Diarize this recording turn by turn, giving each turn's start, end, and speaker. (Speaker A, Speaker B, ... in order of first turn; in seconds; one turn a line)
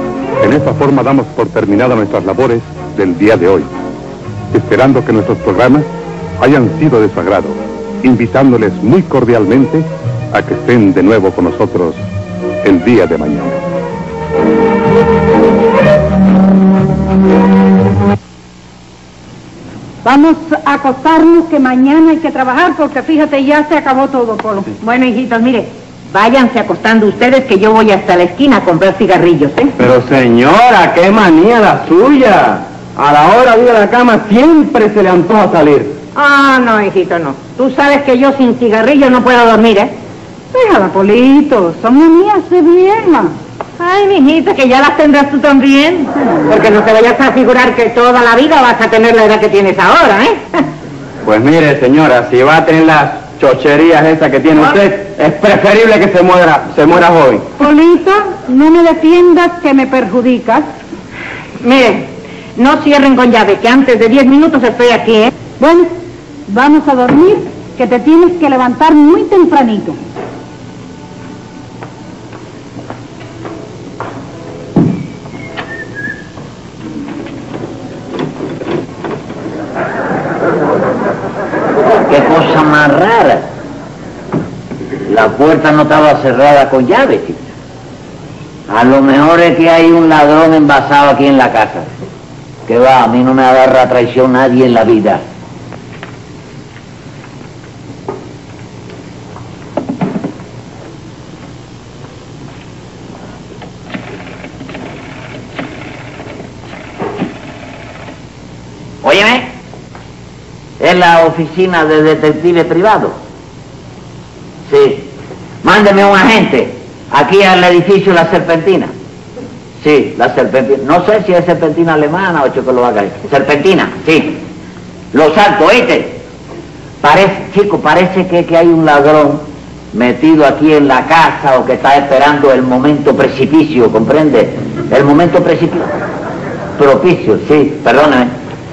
Speaker A: 0.4-3.7
Speaker A: 4.5-5.8
Speaker A: 6.4-12.0
Speaker A: 12.6-13.6
Speaker B: 20.0-24.7
Speaker C: 24.8-29.7
Speaker D: 29.8-36.0
Speaker C: 36.1-39.9
Speaker B: 40.5-43.3
Speaker C: 43.8-50.6
Speaker D: 51.2-57.5
Speaker B: 57.6-60.7
Speaker C: 61.6-65.3
Speaker B: 65.6-65.9
Speaker B: 66.5-70.0
Speaker E: 82.1-83.5
Speaker E: 85.0-87.4
Speaker E: 88.7-91.9
Speaker E: 92.7-95.2
Speaker E: 109.0-109.5
Speaker E: 110.8-113.2
Speaker E: 114.7-115.1
Speaker E: 115.6-118.9
Speaker E: 119.8-124.4
Speaker E: 125.1-126.2
Speaker E: 127.0-135.9
Speaker E: 136.8-138.3